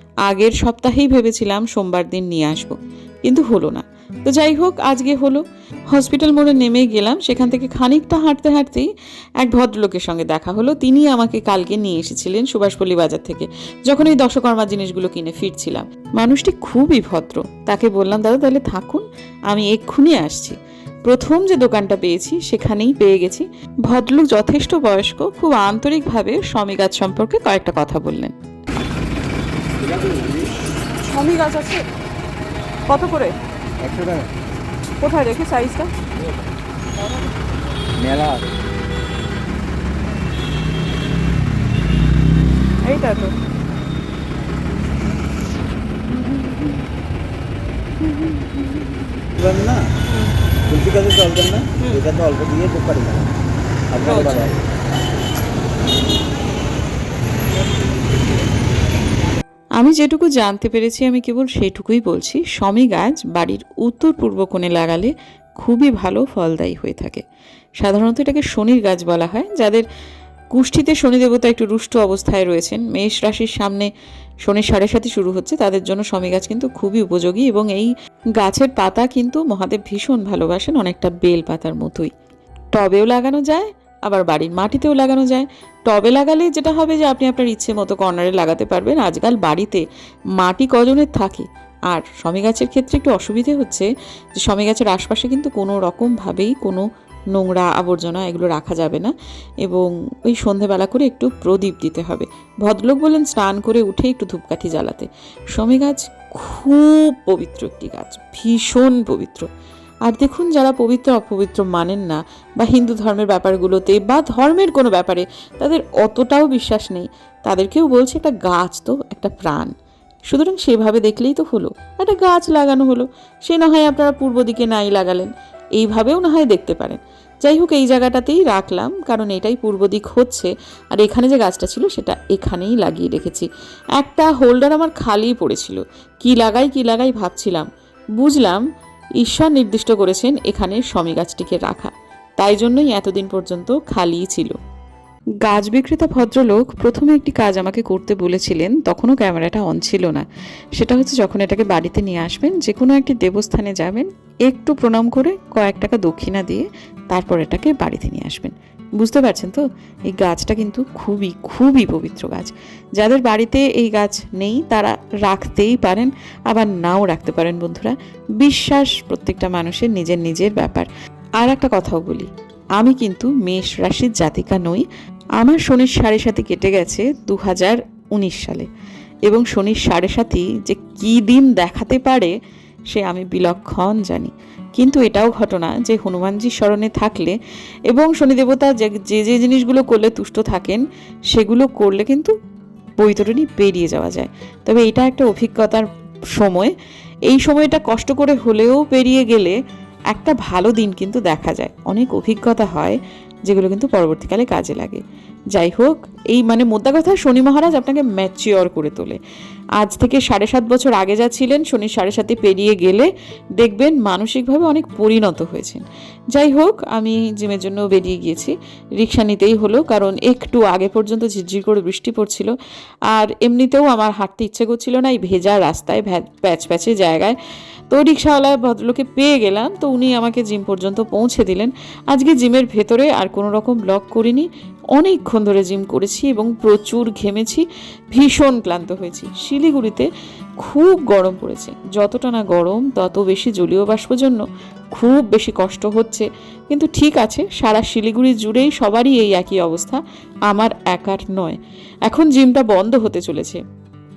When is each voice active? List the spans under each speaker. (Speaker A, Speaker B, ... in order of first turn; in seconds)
Speaker A: 0.2-8.9, 9.4-28.3, 59.8-67.2, 67.8-69.9, 70.5-73.9, 74.4-82.1, 82.7-89.8, 90.4-109.5, 110.1-119.7, 120.3-138.6, 139.2-144.6, 145.4-174.9, 175.4-178.7, 179.2-182.3, 182.9-187.4, 187.9-192.3, 193.0-196.7, 197.3-199.6, 200.1-205.0, 205.5-209.2, 209.8-222.5, 223.1-227.4, 227.9-240.1, 240.6-244.4, 244.9-253.6
Speaker B: 29.8-30.5, 33.8-34.3, 38.0-38.5, 49.3-49.9, 50.7-53.3, 53.9-54.5
Speaker C: 31.1-31.9, 32.9-33.4, 35.0-35.9, 42.8-43.4, 46.2-46.6, 48.0-48.8, 51.8-52.1, 54.1-54.5